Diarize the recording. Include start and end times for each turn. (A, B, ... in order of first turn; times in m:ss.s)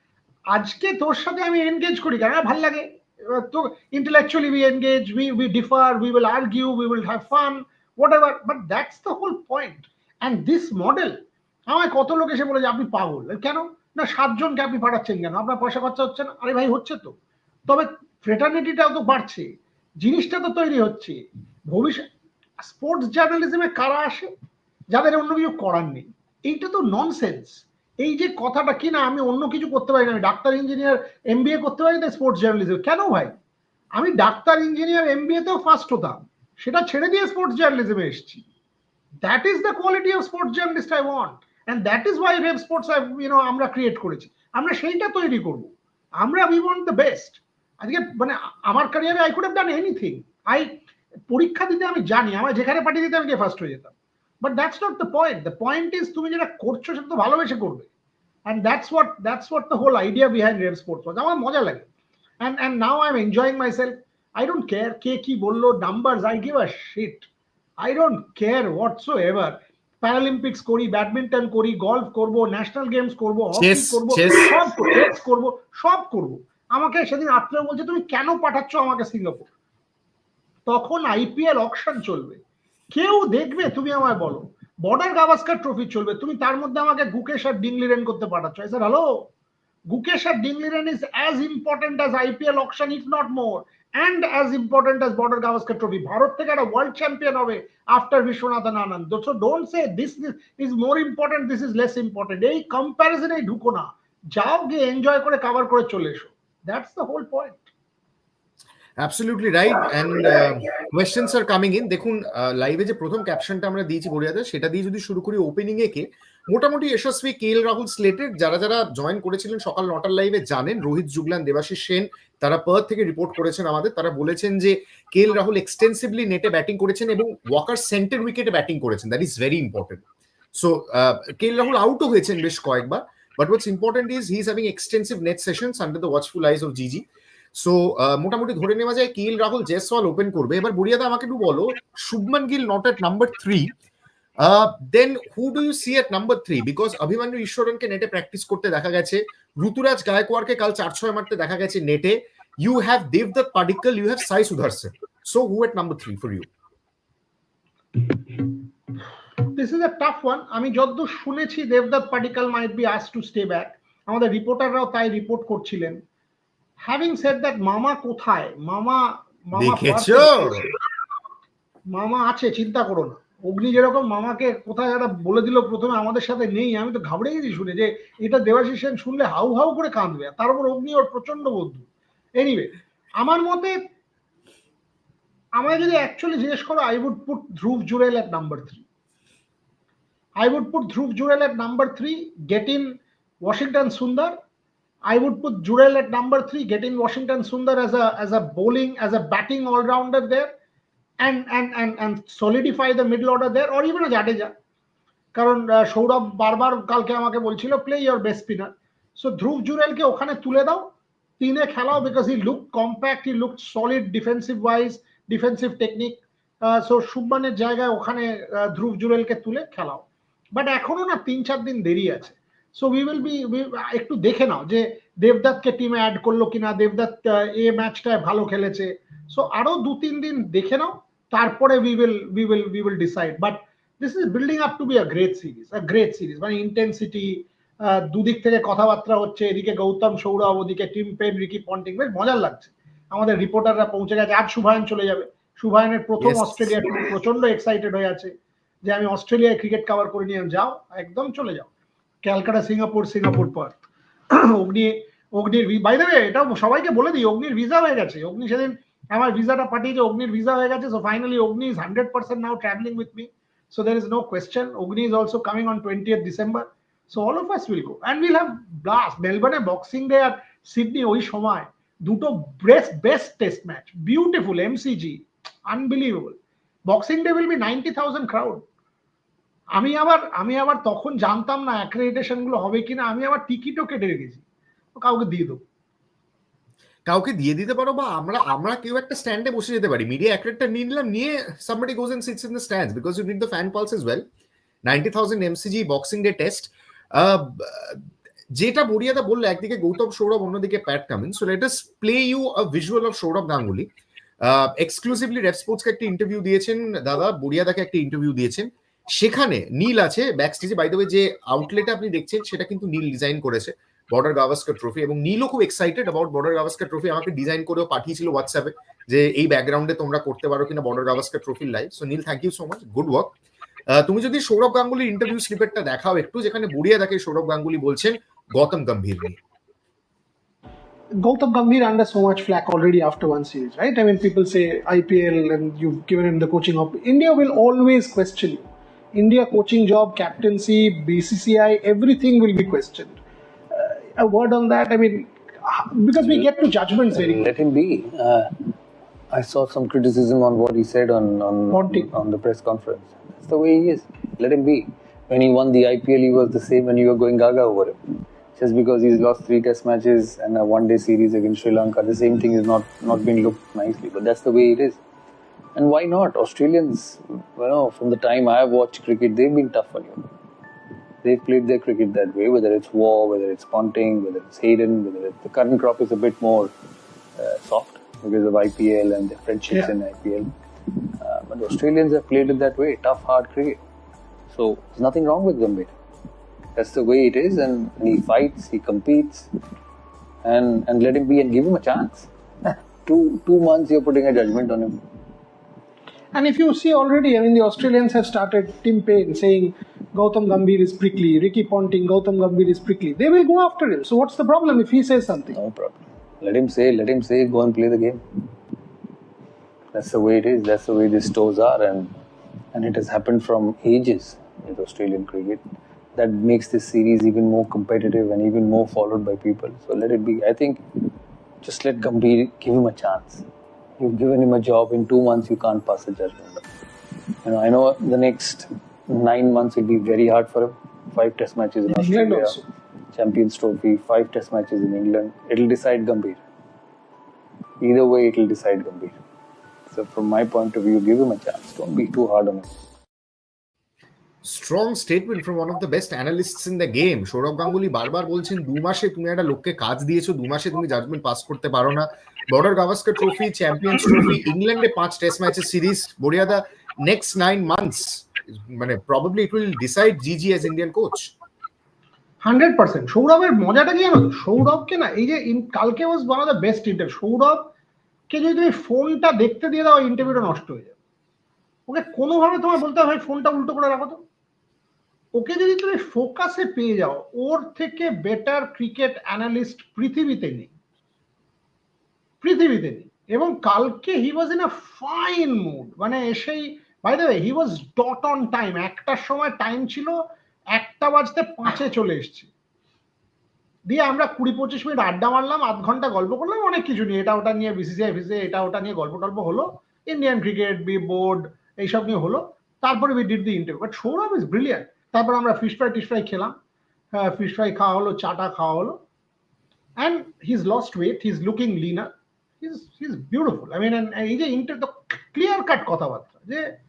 0:00.5-0:17.2 A
0:17.7-0:22.1 A
0:22.6-0:24.3 A
0:24.9-0:33.4 A
0:34.0-0:38.4 A
0:39.2-0:57.9 A
0:58.5-1:01.9 A
1:02.4-1:07.3 A
1:07.8-1:19.5 A
1:13.6-1:14.5 B
1:20.7-1:29.3 A
1:29.9-1:47.7 A
1:49.0-2:10.0 B
2:10.5-2:17.0 B
2:17.6-2:23.7 B
2:24.4-2:36.5 B
2:39.5-2:46.0 A
2:46.8-2:50.6 A
2:49.6-2:50.7 B
2:51.9-3:03.8 A
3:05.6-3:08.8 A
3:10.4-3:14.4 A
3:15.1-3:20.5 A
3:21.2-3:24.5 A
3:25.3-4:11.7 A
4:06.2-4:06.7 B
4:12.2-4:38.6 A
4:39.7-4:44.4 A
4:45.0-4:45.6 A
4:47.1-4:54.2 B
4:54.8-4:58.0 B
4:58.6-5:03.9 B
5:04.4-5:23.3 B
5:23.9-5:29.4 B
5:31.2-5:43.2 C
5:43.7-5:47.5 C
5:46.2-5:46.5 D
5:47.1-5:48.8 D
5:49.3-5:58.0 D
5:51.7-5:52.1 C
5:58.6-6:05.0 D
6:05.8-6:10.2 D
6:11.2-6:16.7 D
6:17.4-6:23.8 D
6:24.5-6:25.9 D
6:26.8-6:29.5 D
6:30.4-6:35.0 D
6:36.3-6:45.6 C
6:45.5-6:48.4 D
6:49.9-6:52.1 D
6:52.7-6:55.6 D
6:56.2-7:03.5 D
7:04.0-7:06.6 D
7:07.4-7:12.6 D
7:11.9-7:12.6 C
7:13.1-7:16.4 D
7:17.8-7:19.2 D
7:19.9-7:22.7 D
7:24.4-7:41.3 B
7:42.4-7:47.7 A
7:48.3-7:50.9 A
7:51.9-7:54.2 A
7:55.3-8:00.7 A
8:02.4-8:10.2 A
8:10.7-8:12.5 A
8:13.9-8:26.6 A
8:27.1-8:29.0 A
8:30.0-8:36.7 A